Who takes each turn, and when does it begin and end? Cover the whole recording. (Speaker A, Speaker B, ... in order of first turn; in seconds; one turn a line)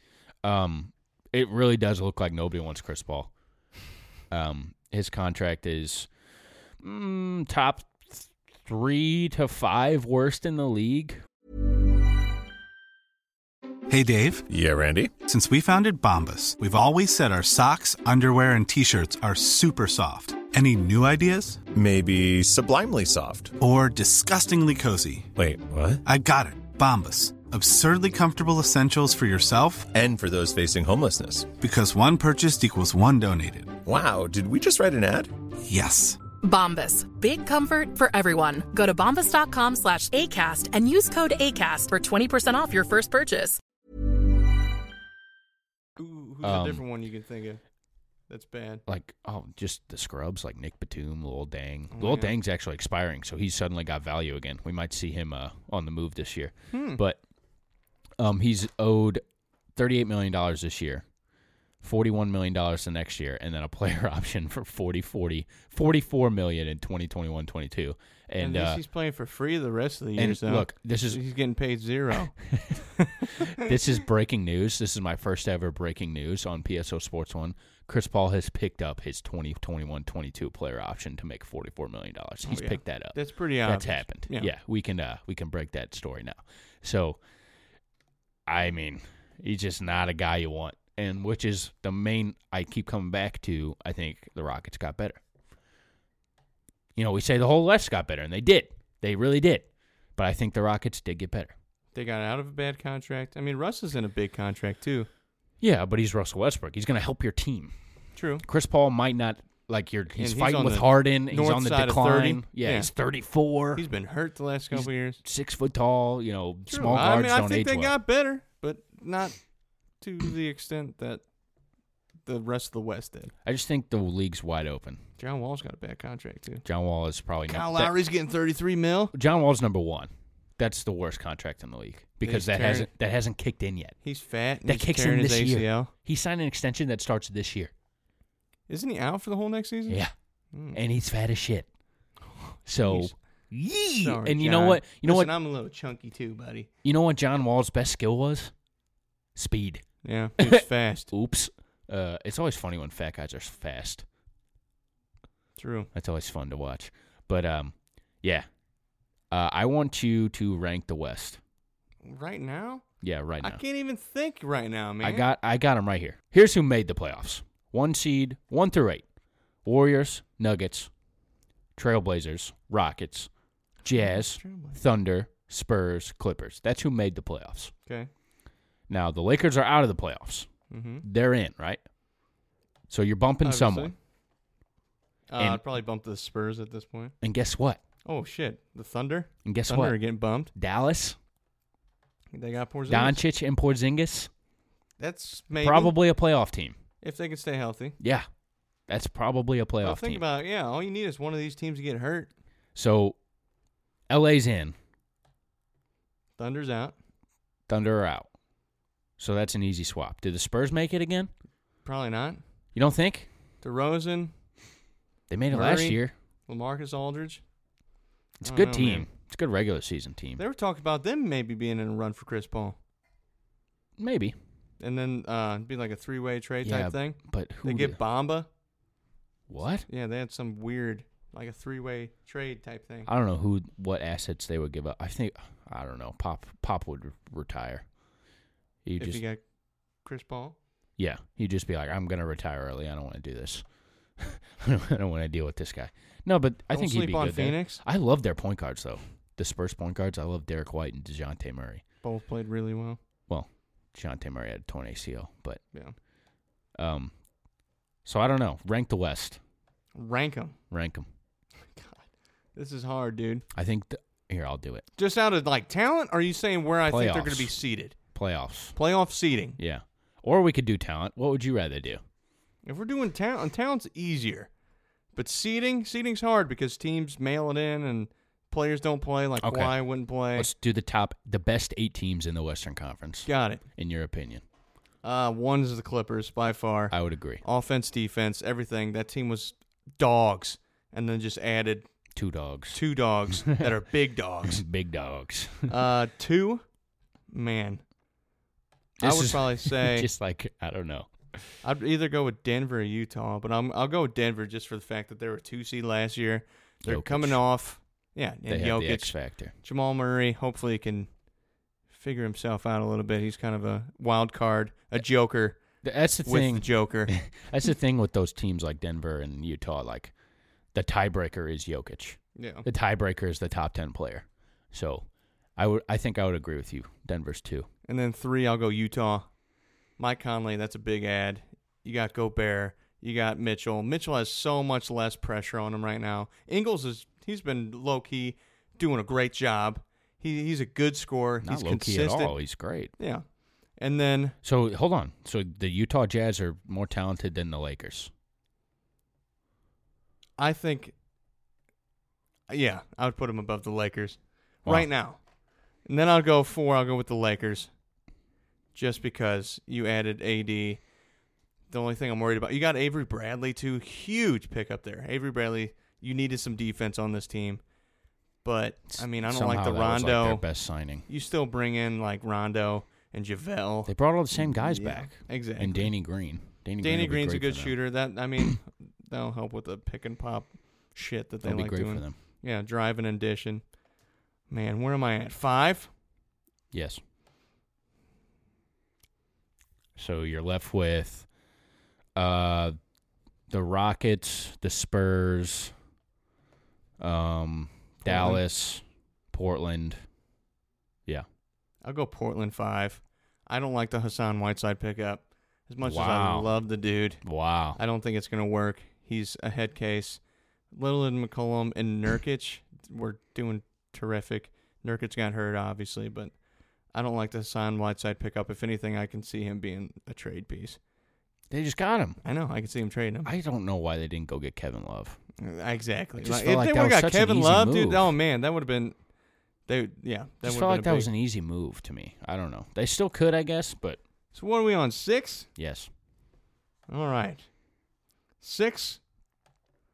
Speaker A: 0.4-3.3
Speaker A: 4.3-6.1
Speaker A: 6.8-11.2
Speaker B: 13.9-14.4
Speaker C: 14.5-15.2
Speaker B: 15.2-21.6
Speaker C: 21.7-23.5
Speaker B: 23.6-25.3
Speaker C: 25.4-26.0
Speaker B: 26.0-29.9
Speaker C: 29.9-31.5
Speaker B: 31.6-33.8
Speaker C: 33.8-35.3
Speaker B: 35.6-36.2
Speaker D: 36.4-43.6
Speaker E: 46.0-47.6
Speaker A: 46.4-46.8
Speaker E: 48.3-48.8
Speaker A: 48.9-57.2
Speaker E: 51.9-52.3
Speaker E: 56.7-57.0
Speaker A: 58.2-59.2
Speaker A: 59.7-61.0
Speaker A: 61.8-68.8
Speaker E: 68.4-73.7
Speaker A: 70.2-71.2
Speaker A: 72.5-72.8
Speaker A: 73.4-87.2
Speaker E: 82.5-84.5
Speaker A: 88.5-95.2
Speaker A: 97.0-101.5
Speaker E: 101.9-105.1
Speaker A: 105.6-107.7
Speaker E: 108.2-108.4
Speaker A: 108.4-113.9
Speaker E: 110.2-112.9
Speaker E: 113.7-115.2
Speaker A: 114.7-117.9
Speaker E: 116.7-119.4
Speaker E: 120.0-121.2
Speaker E: 122.2-123.3
Speaker A: 123.4-125.0
Speaker E: 125.2-126.6
Speaker A: 126.6-127.9
Speaker E: 127.5-129.1
Speaker A: 129.1-134.0
Speaker E: 132.2-132.9
Speaker E: 134.0-135.9
Speaker A: 134.6-137.7
Speaker E: 138.7-140.0
Speaker A: 139.9-140.1
Speaker E: 140.5-140.8
Speaker A: 140.7-141.7
Speaker E: 142.4-143.1
Speaker A: 142.7-145.3
Speaker E: 144.0-146.7
Speaker A: 146.8-148.5
Speaker A: 149.3-149.8
Speaker E: 150.0-151.1
Speaker A: 150.4-154.0
Speaker E: 155.6-155.9
Speaker A: 155.9-158.5
Speaker A: 159.3-161.4
Speaker E: 162.0-162.8
Speaker A: 163.0-163.6
Speaker E: 163.4-165.2
Speaker A: 165.0-169.0
Speaker A: 169.6-170.9
Speaker A: 171.8-173.3
Speaker A: 173.8-177.7
Speaker E: 173.9-174.8
Speaker A: 178.9-180.5
Speaker E: 180.7-181.0
Speaker A: 181.0-181.8
Speaker A: 182.9-183.9
Speaker E: 183.4-183.9
Speaker E: 185.3-187.1
Speaker A: 187.2-187.8
Speaker E: 188.1-190.5
Speaker A: 189.4-190.0
Speaker A: 190.5-191.2
Speaker E: 192.3-193.2
Speaker A: 192.9-194.3
Speaker E: 195.0-195.9
Speaker A: 195.6-196.8
Speaker E: 197.0-198.0
Speaker A: 198.0-198.3
Speaker A: 198.9-200.2
Speaker E: 199.8-202.3
Speaker A: 202.7-203.2
Speaker A: 204.1-204.7
Speaker E: 206.4-206.9
Speaker A: 207.7-208.3
Speaker A: 209.2-211.3
Speaker E: 211.8-212.4
Speaker A: 212.7-213.3
Speaker E: 213.6-214.3
Speaker A: 215.3-216.1
Speaker E: 215.5-217.4
Speaker A: 218.4-220.4
Speaker E: 218.4-219.1
Speaker E: 220.4-222.8
Speaker A: 224.0-224.3
Speaker E: 224.8-228.5
Speaker A: 226.6-228.0
Speaker A: 229.5-229.8
Speaker E: 229.9-233.1
Speaker A: 233.1-237.8
Speaker A: 238.8-239.2
Speaker E: 239.0-239.4
Speaker E: 240.0-240.6
Speaker A: 241.0-243.6
Speaker A: 244.2-251.8
Speaker E: 246.7-247.8
Speaker E: 252.0-253.0
Speaker A: 253.3-255.6
Speaker A: 256.8-257.1
Speaker A: 258.0-259.4
Speaker E: 259.9-260.6
Speaker A: 260.7-261.1
Speaker E: 261.8-262.0
Speaker E: 262.5-263.4
Speaker A: 263.5-264.8
Speaker E: 265.0-268.0
Speaker A: 266.9-267.5
Speaker A: 268.1-268.7
Speaker E: 268.7-269.6
Speaker A: 269.6-272.0
Speaker E: 272.6-274.5
Speaker E: 275.1-280.5
Speaker A: 279.4-279.8
Speaker A: 280.3-284.4
Speaker E: 283.2-283.6
Speaker E: 285.0-291.9
Speaker A: 286.9-287.4
Speaker A: 292.1-293.6
Speaker E: 292.7-294.6
Speaker A: 294.4-295.7
Speaker E: 295.7-296.6
Speaker E: 297.3-297.8
Speaker A: 299.0-301.6
Speaker E: 299.0-300.1
Speaker E: 301.6-311.1
Speaker A: 306.8-307.4
Speaker A: 308.5-309.5
Speaker E: 311.9-315.6
Speaker A: 315.8-320.1
Speaker E: 316.2-317.1
Speaker A: 320.7-327.7
Speaker E: 322.4-322.6
Speaker E: 327.9-329.3
Speaker E: 330.0-342.4
Speaker A: 341.4-342.9
Speaker E: 343.0-344.4
Speaker A: 344.4-348.1
Speaker E: 350.4-350.9
Speaker E: 352.5-355.2
Speaker E: 355.8-357.7
Speaker E: 358.7-360.8
Speaker E: 361.7-367.6
Speaker E: 368.4-370.5
Speaker A: 368.9-371.0
Speaker E: 371.1-375.9
Speaker A: 373.9-377.7
Speaker E: 376.8-383.6
Speaker A: 381.4-382.1
Speaker E: 384.5-385.9
Speaker A: 386.7-387.0
Speaker A: 389.9-391.3
Speaker A: 392.1-392.8
Speaker A: 393.5-395.7
Speaker A: 397.0-400.0
Speaker E: 398.0-398.4
Speaker E: 401.8-407.2
Speaker A: 405.8-406.5
Speaker A: 407.2-407.8
Speaker E: 407.8-410.2
Speaker E: 410.7-416.3
Speaker E: 416.9-420.8
Speaker A: 421.5-422.2
Speaker E: 422.2-423.3
Speaker A: 423.2-425.2
Speaker E: 425.4-428.9
Speaker A: 426.2-428.1
Speaker E: 429.7-431.1
Speaker A: 430.4-434.0
Speaker E: 434.3-435.5
Speaker A: 435.6-435.9
Speaker E: 436.9-437.5
Speaker E: 438.4-439.0